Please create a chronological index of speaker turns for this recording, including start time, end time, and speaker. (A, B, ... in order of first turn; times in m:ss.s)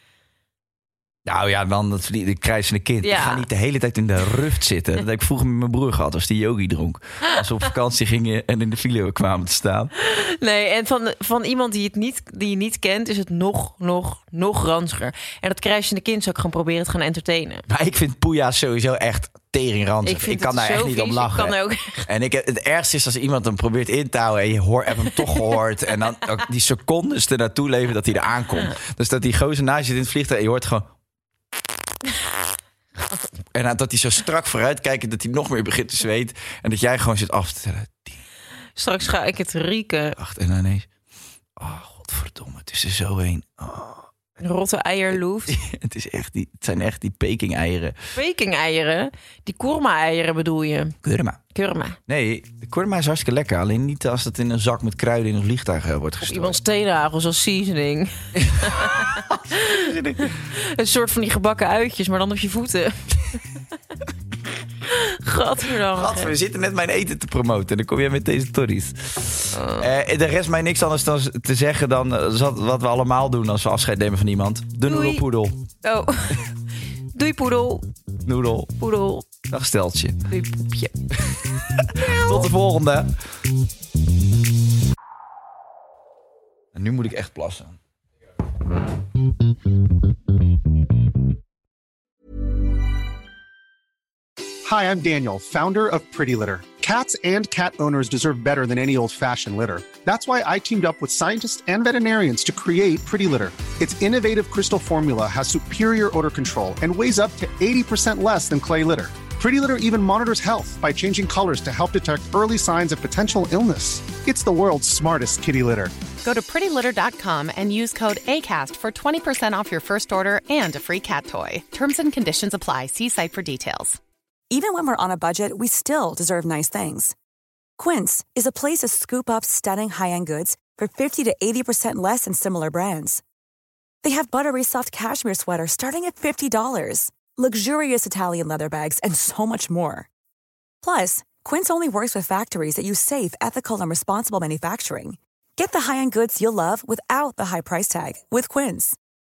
0:01.2-0:09.9 A
0:03.0-0:03.4 B
0:10.0-0:17.6 B
0:17.7-0:21.5 A
0:20.0-0:22.1 B
0:22.0-0:30.9 A
0:33.5-0:38.2 A
0:38.8-0:40.2 B
0:40.2-0:40.9 A
0:41.6-0:44.1 A
0:44.4-0:45.6 B
0:45.5-0:48.0 A
0:48.1-0:51.0 B
0:51.0-0:51.4 A
0:51.5-0:52.0 B
0:52.1-0:56.6 A
0:56.2-1:03.4 B
0:58.4-1:00.4 A
1:04.9-1:06.3 B
1:05.9-1:15.6 A
1:09.5-1:09.9 B
1:14.8-1:15.2 B
1:15.8-1:16.4 B
1:17.1-1:17.9 B
1:18.2-1:18.7 A
1:18.8-1:19.3 B
1:19.5-1:20.2 A
1:20.3-1:20.9 B
1:21.1-1:23.1 A
1:26.7-1:27.8 A
1:34.6-1:55.9 C
1:56.2-2:04.0 D
2:04.5-2:07.1 E
2:07.8-2:13.2 E
2:14.0-2:20.1 E
2:20.8-2:29.0 E